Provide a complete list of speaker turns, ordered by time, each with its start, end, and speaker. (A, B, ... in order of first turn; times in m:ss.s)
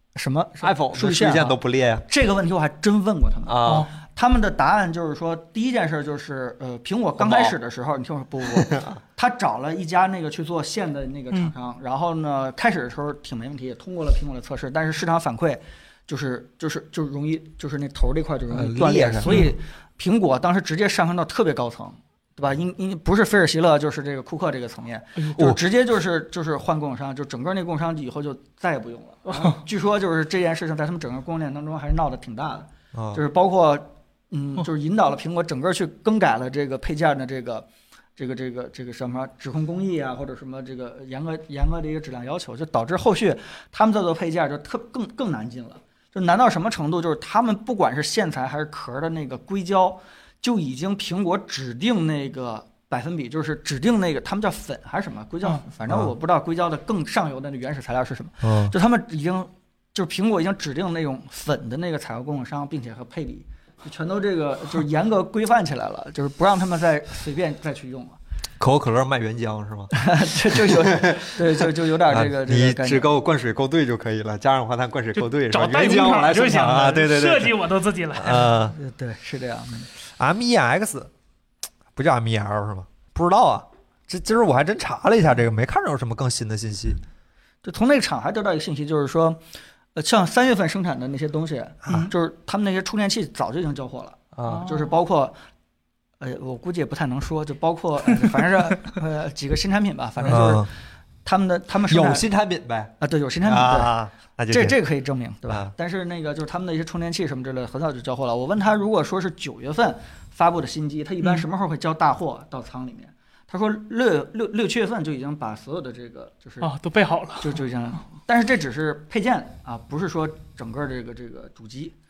0:00.2-1:08.2 A
0:00.6-0:02.1 B
0:03.5-0:03.9 B
0:03.6-0:03.9 C
0:07.2-0:07.5 B
0:08.5-0:09.0 B
0:18.5-0:19.4 B
0:19.2-0:19.6 C
0:25.2-0:25.4 C
0:29.3-0:29.6 C
0:32.9-0:33.2 B
0:58.4-0:58.7 B
1:08.6-1:17.6 B
1:10.0-1:13.1 A
1:15.5-1:18.5 C
1:18.1-1:18.8 B
1:18.7-1:19.9 A
1:20.2-1:21.1 B
1:22.0-1:27.0 B
1:27.6-1:29.4 A
1:30.0-1:35.4 A
1:34.4-1:34.7 B
1:34.5-1:34.9 C
1:36.2-1:40.7 A
1:38.2-1:38.9 C
1:40.2-1:40.7 B
1:41.2-1:42.2 A
1:41.9-1:42.9 B
1:43.0-1:44.0 A
1:43.4-1:44.8 B
1:44.5-1:56.7 A
1:56.6-1:57.6 C
1:57.4-2:02.0 A